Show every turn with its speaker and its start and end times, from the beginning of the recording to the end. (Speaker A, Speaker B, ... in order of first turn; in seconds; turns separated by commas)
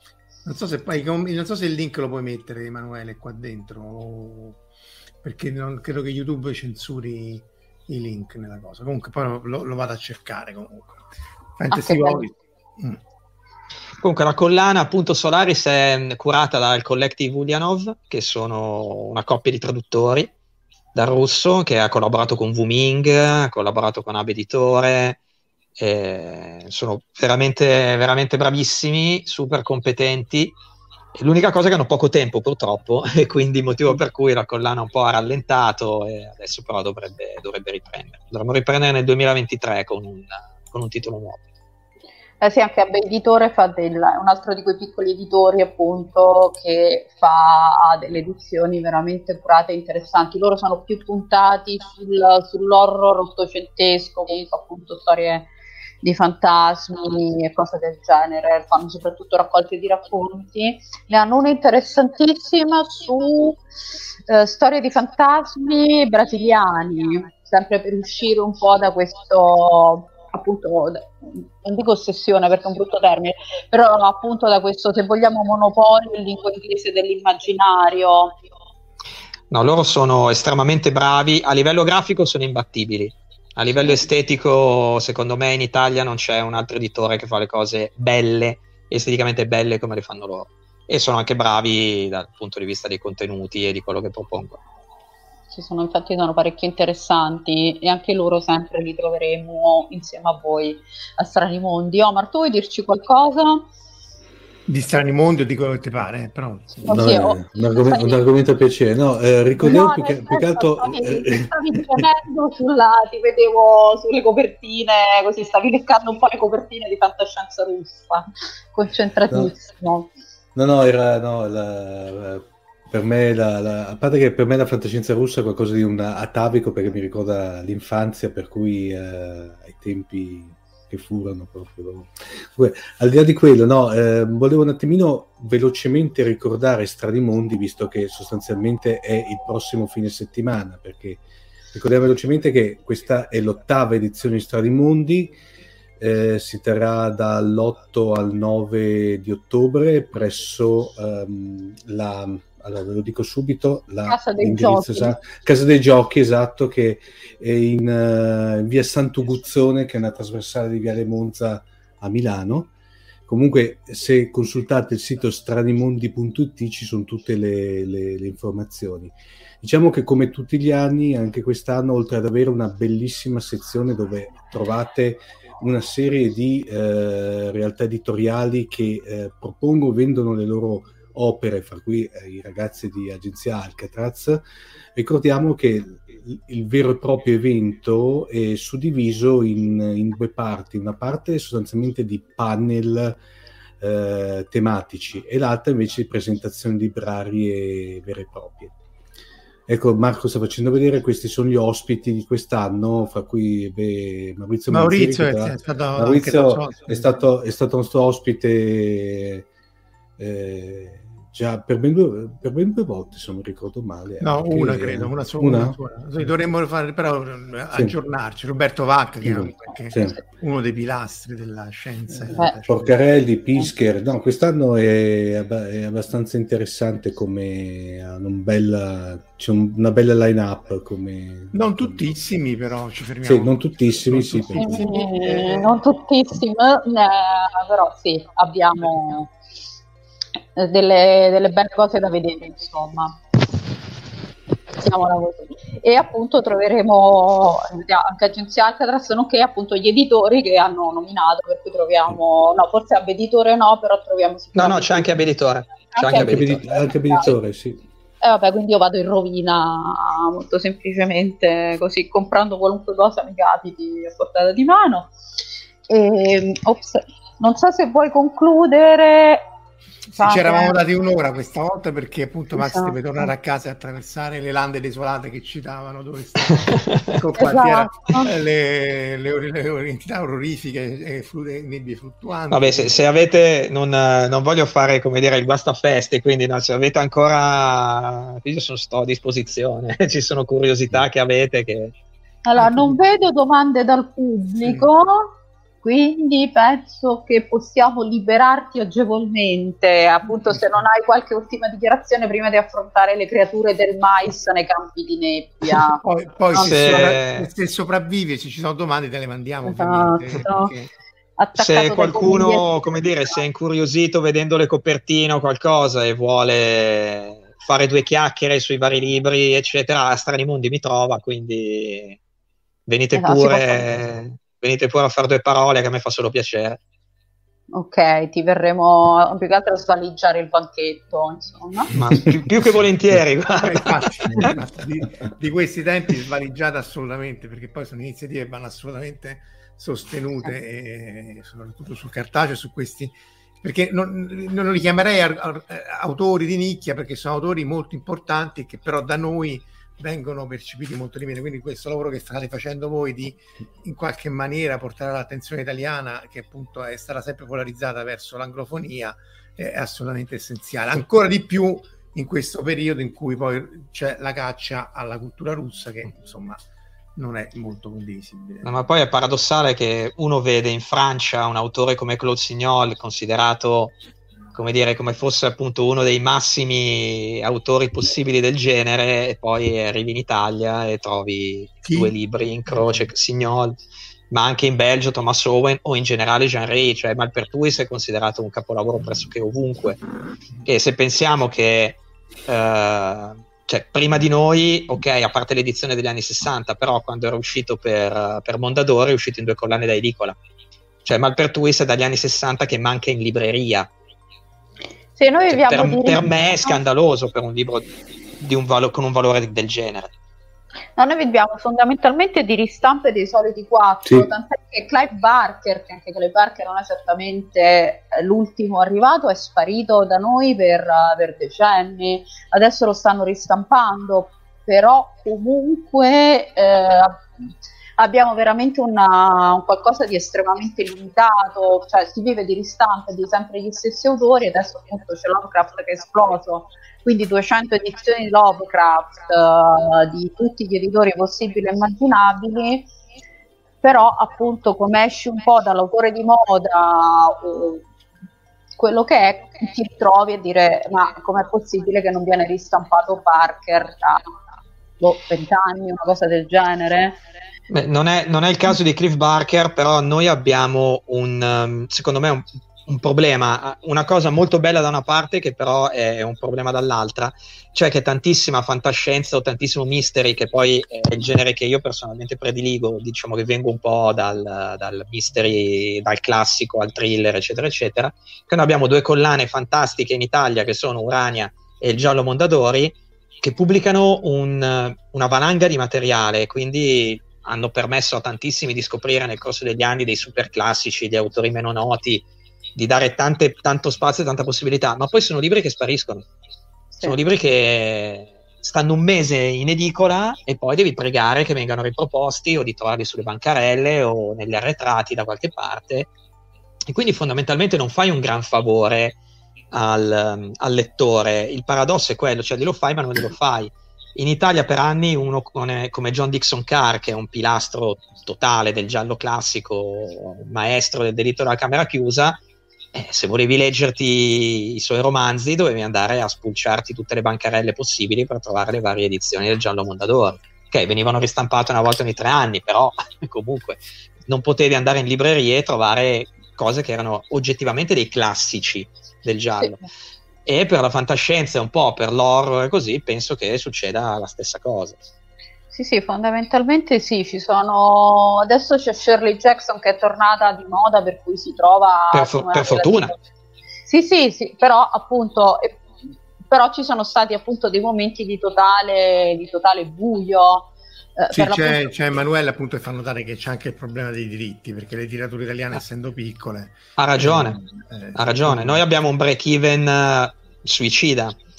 Speaker A: 0.4-4.6, Speaker A: 5.2-11.1, Speaker A: 11.6-13.0, Speaker B: 11.7-12.2, Speaker C: 14.0-20.3, Speaker C: 20.9-25.2, Speaker C: 25.8-30.6, Speaker C: 31.1-41.4, Speaker B: 42.4-55.5, Speaker B: 56.0-63.6, Speaker B: 64.3-78.3, Speaker C: 79.5-94.6, Speaker B: 95.5-103.7, Speaker A: 104.7-106.9, Speaker B: 106.9-108.2, Speaker D: 106.9-112.1, Speaker B: 109.6-120.1, Speaker D: 120.5-141.2, Speaker D: 141.7-145.4, Speaker D: 146.0-162.7, Speaker B: 154.1-155.2, Speaker D: 163.3-184.4, Speaker D: 184.9-193.2, Speaker D: 193.8-198.7, Speaker D: 199.7-209.5, Speaker A: 204.7-207.2, Speaker D: 210.2-215.8, Speaker A: 214.2-223.0, Speaker D: 219.2-220.2, Speaker D: 222.7-232.1, Speaker A: 231.5-235.8, Speaker D: 233.2-234.8, Speaker B: 234.6-239.3, Speaker B: 240.6-243.2, Speaker B: 244.8-255.2, Speaker C: 254.6-256.7, Speaker B: 255.9-257.3, Speaker D: 256.1-257.8, Speaker B: 258.2-265.1, Speaker B: 265.9-269.5, Speaker B: 270.1-270.7, Speaker A: 270.2-283.0, Speaker B: 272.6-273.0, Speaker C: 276.7-277.1, Speaker B: 277.4-278.3, Speaker C: 282.5-291.9, Speaker B: 292.4-306.0, Speaker A: 292.6-293.0, Speaker A: 294.6-294.9, Speaker A: 300.4-300.8, Speaker A: 306.0-310.9, Speaker B: 306.5-306.8, Speaker C: 306.6-307.5, Speaker B: 309.6-310.7, Speaker B: 311.4-312.7, Speaker C: 311.6-322.2, Speaker C: 322.9-326.8, Speaker B: 323.1-323.9, Speaker B: 327.7-331.9, Speaker C: 331.9-334.5, Speaker A: 333.6-366.6, Speaker A: 367.2-368.7, Speaker C: 368.6-374.0, Speaker C: 374.5-383.8, Speaker A: 381.9-382.1, Speaker C: 384.3-390.0, Speaker C: 390.6-400.4, Speaker C: 401.1-403.9, Speaker B: 405.1-406.8, Speaker C: 405.5-407.9, Speaker C: 408.4-410.1, Speaker B: 411.0-427.2, Speaker B: 428.0-442.9, Speaker B: 443.8-447.9, Speaker B: 448.8-454.3, Speaker B: 455.0-457.2, Speaker C: 457.7-492.2, Speaker C: 492.8-496.3, Speaker C: 497.0-506.1, Speaker C: 506.9-509.2, Speaker C: 509.7-522.4, Speaker C: 522.9-539.8, Speaker C: 540.5-545.0, Speaker B: 545.7-553.2, Speaker C: 552.1-553.1, Speaker B: 553.9-555.9, Speaker B: 556.5-561.9, Speaker A: 561.3-568.8, Speaker C: 567.0-567.6, Speaker C: 568.1-571.4